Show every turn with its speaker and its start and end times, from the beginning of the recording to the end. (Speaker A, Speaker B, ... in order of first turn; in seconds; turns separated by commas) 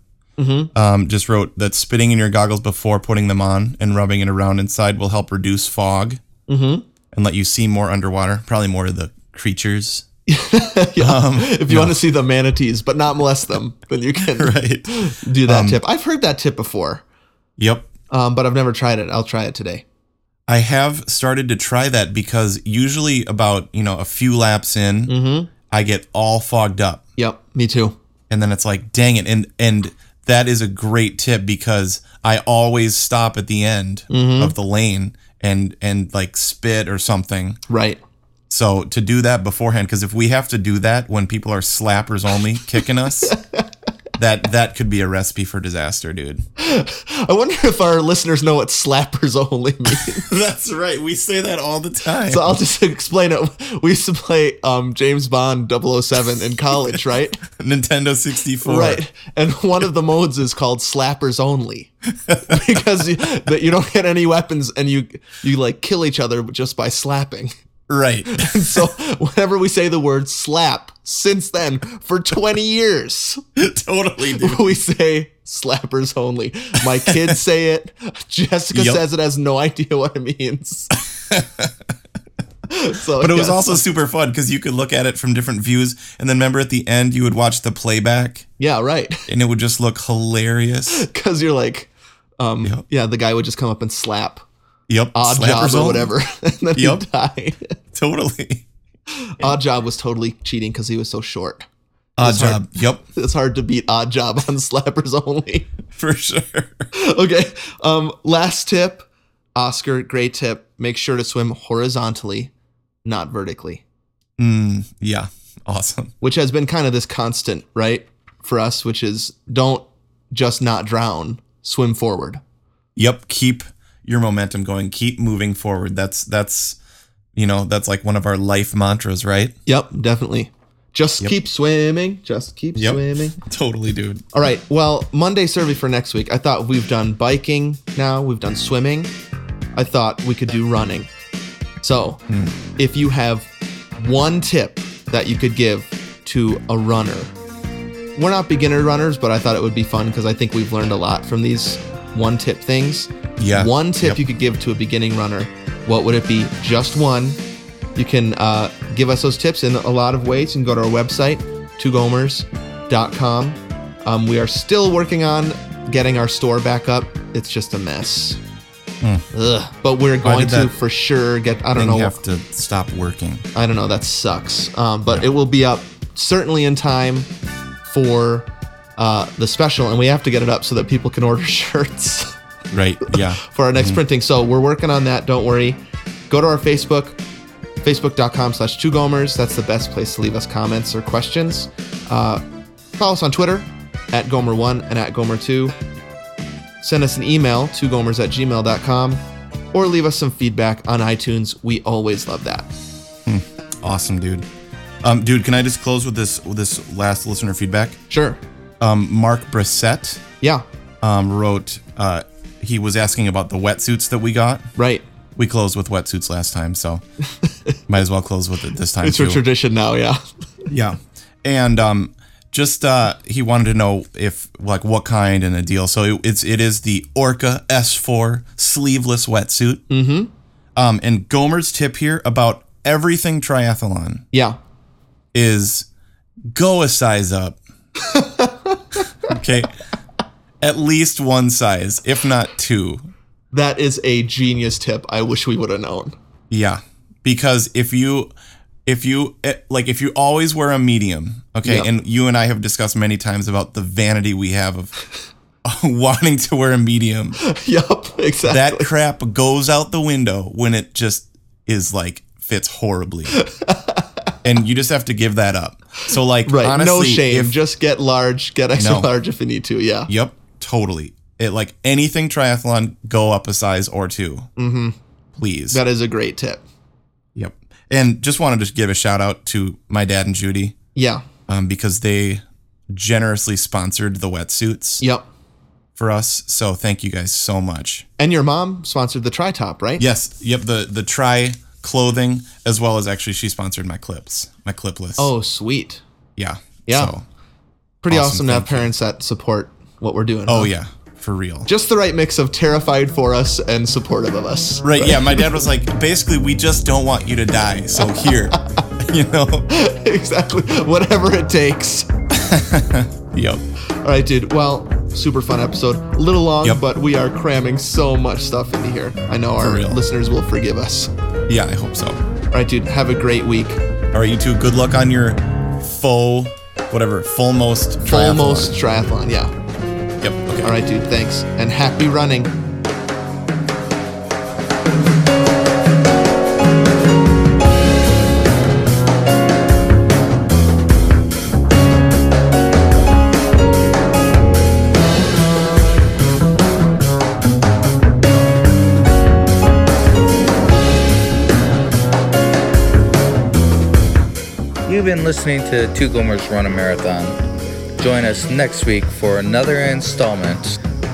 Speaker A: 0.4-0.7, Speaker B: 0.7-6.2, Speaker A: 6.5-6.9, Speaker B: 7.1-10.1, Speaker A: 10.3-17.0, Speaker B: 11.0-12.0, Speaker B: 14.3-15.8, Speaker B: 17.6-17.9, Speaker A: 18.1-19.8, Speaker B: 20.5-25.1, Speaker A: 25.1-25.5, Speaker B: 25.7-27.0, Speaker A: 27.2-27.9, Speaker B: 28.3-37.6, Speaker A: 34.1-34.5, Speaker A: 37.7-38.0, Speaker B: 38.5-43.4, Speaker A: 43.2-43.7, Speaker B: 44.2-46.4, Speaker A: 46.6-50.3, Speaker B: 49.9-52.6, Speaker A: 52.3-57.4, Speaker B: 57.5-59.0, Speaker A: 58.6-67.5, Speaker B: 62.3-62.7, Speaker B: 67.9-68.9, Speaker A: 68.3-73.4, Speaker B: 73.6-74.7, Speaker A: 74.3-81.0, Speaker B: 77.1-77.3, Speaker B: 78.7-79.0, Speaker B: 81.1-81.8, Speaker A: 82.7-83.8, Speaker B: 83.2-88.5, Speaker A: 88.6-89.3, Speaker B: 89.3-91.1, Speaker A: 90.9-94.4, Speaker B: 94.9-96.1, Speaker A: 95.1-97.8, Speaker B: 96.8-97.0, Speaker B: 97.9-98.7, Speaker A: 99.1-101.7, Speaker B: 102.2-103.0, Speaker A: 102.2-105.7, Speaker B: 105.9-106.8, Speaker A: 106.9-112.5, Speaker A: 113.0-113.8, Speaker B: 114.4-116.1, Speaker A: 116.2-122.4, Speaker B: 123.0-126.8, Speaker B: 127.4-129.5, Speaker A: 129.7-133.4, Speaker B: 132.8-134.3, Speaker A: 134.3-139.1, Speaker A: 139.8-141.1, Speaker A: 141.8-142.2, Speaker B: 142.3-142.6, Speaker A: 142.8-147.3, Speaker A: 148.2-157.4, Speaker B: 153.4-154.2, Speaker A: 158.0-168.4, Speaker B: 169.0-169.3, Speaker A: 169.3-172.1, Speaker B: 170.2-170.7, Speaker B: 171.8-173.4, Speaker A: 173.5-177.3, Speaker A: 177.8-182.4, Speaker B: 182.7-184.0, Speaker A: 183.1-185.8, Speaker A: 186.3-187.2, Speaker A: 187.8-192.4, Speaker A: 193.0-195.8, Speaker A: 196.8-199.2, Speaker A: 199.7-202.7, Speaker B: 203.3-204.5, Speaker B: 205.0-208.0, Speaker A: 208.1-208.4, Speaker B: 208.8-210.2, Speaker B: 211.0-214.7, Speaker A: 214.8-215.0, Speaker B: 215.4-217.0, Speaker A: 217.4-217.8, Speaker B: 217.9-219.4, Speaker A: 219.0-220.7, Speaker B: 220.7-229.8, Speaker A: 229.9-230.3, Speaker B: 230.8-234.2, Speaker A: 234.3-234.6, Speaker B: 235.3-235.9, Speaker B: 236.5-237.6, Speaker A: 238.0-238.8, Speaker B: 239.2-239.7, Speaker B: 240.6-243.1, Speaker A: 243.5-246.1, Speaker B: 246.5-248.3, Speaker B: 248.9-254.9, Speaker A: 251.6-251.9, Speaker B: 255.6-257.4, Speaker A: 257.4-258.9, Speaker B: 258.5-263.4, Speaker A: 263.3-264.1, Speaker B: 264.4-267.6, Speaker A: 266.5-270.1, Speaker B: 268.8-269.1, Speaker B: 270.1-274.5, Speaker A: 274.6-274.9, Speaker B: 275.4-275.8, Speaker A: 275.7-276.6, Speaker B: 277.4-280.8, Speaker A: 280.9-281.2, Speaker B: 281.5-285.0, Speaker B: 286.0-288.1, Speaker A: 288.2-290.0, Speaker B: 290.0-295.3, Speaker A: 295.2-296.0, Speaker B: 296.4-297.2, Speaker A: 296.9-297.1, Speaker A: 298.0-300.7, Speaker B: 298.1-298.9, Speaker B: 300.5-301.7, Speaker A: 301.7-305.6, Speaker B: 304.8-309.7, Speaker A: 309.7-312.1, Speaker B: 312.3-313.6, Speaker A: 314.0-321.1, Speaker B: 319.6-320.0, Speaker B: 321.5-322.2, Speaker A: 322.5-323.8, Speaker B: 324.1-328.8, Speaker A: 328.1-329.5, Speaker B: 330.2-330.8, Speaker A: 330.6-332.5, Speaker C: 354.9-357.4, Speaker C: 358.0-360.8